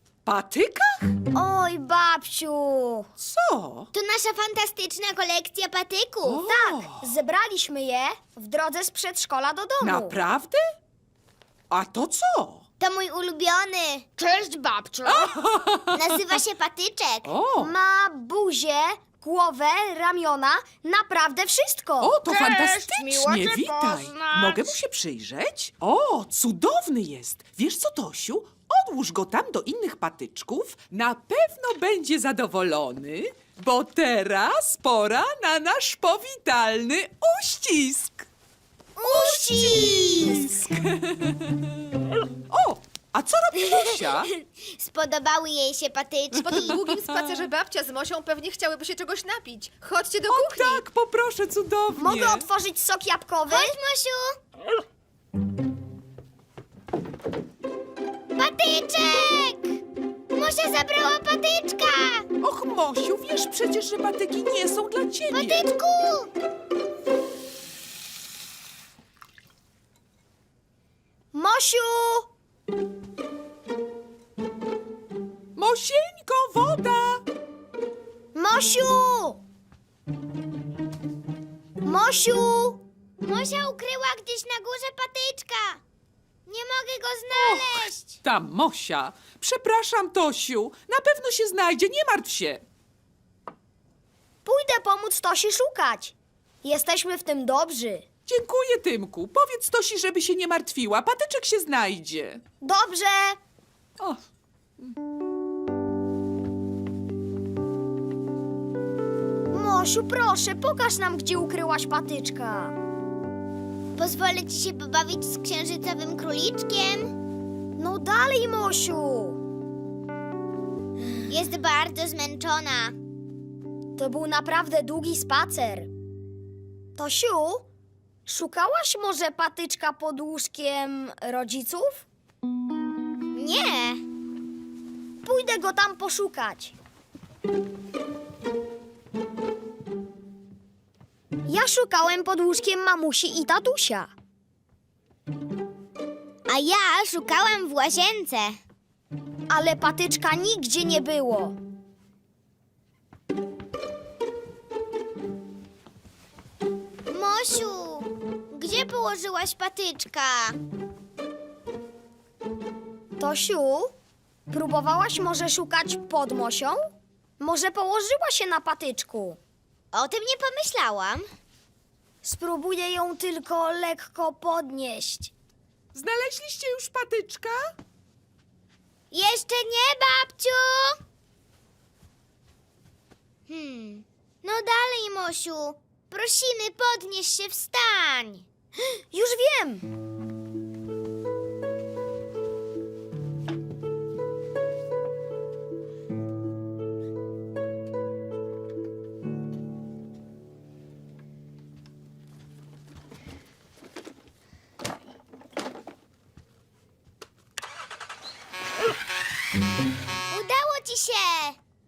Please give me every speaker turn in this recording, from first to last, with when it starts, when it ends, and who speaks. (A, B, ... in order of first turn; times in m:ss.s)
0:00.2-0:01.1 A
0:01.3-0:03.1 B
0:03.2-0:03.9 A
0:03.9-0:06.4 C
0:06.2-0:07.0 A
0:06.4-0:10.2 B
0:09.8-0:10.6 A
0:11.7-0:12.6 A
0:12.8-0:14.0 C
0:14.2-0:15.3 D
0:15.0-0:16.0 A
0:15.9-0:17.3 C
0:17.2-0:17.7 A
0:17.6-0:22.2 B
0:22.0-0:38.3 A
0:22.2-0:24.7 D
0:39.0-0:40.5 C
0:39.0-0:41.7 A
0:42.5-0:44.3 A
0:44.4-0:46.8 C
0:46.4-0:47.4 A
0:46.5-0:50.8 E
0:50.3-0:52.4 A
0:52.0-0:53.7 B
0:53.5-0:54.4 C
0:58.3-0:59.8 C
1:00.3-1:02.3 C
1:02.4-1:05.6 A
1:05.3-1:06.3 C
1:11.3-1:12.3 B
1:15.6-1:17.2 A
1:18.3-1:19.4 B
1:21.8-1:22.8 B
1:23.2-1:25.8 C
1:26.5-1:28.2 C
1:27.3-1:32.6 A
1:34.4-1:38.0 B
1:38.3-1:42.4 A
1:42.6-1:43.4 B
1:49.5-1:52.7 B
1:54.0-1:57.1 C
1:57.8-1:59.4 B
2:01.3-2:03.0 C
2:04.0-2:05.9 B
2:06.9-2:07.6 B
2:08.2-2:12.0 B
2:13.3-2:14.0 C
2:15.2-2:16.7 B
2:21.5-2:24.1 B
2:26.5-2:28.6 C
2:29.5-2:31.6 B
2:37.1-2:40.6 C
2:43.2-2:43.9 B
2:44.5-2:49.4 B
2:49.9-2:51.3 C
2:52.2-2:55.3 B
2:55.9-2:57.6 A
2:59.1-3:01.0 C
3:03.5-3:08.4 C
3:09.1-3:09.9 B
3:30.3-3:31.6 C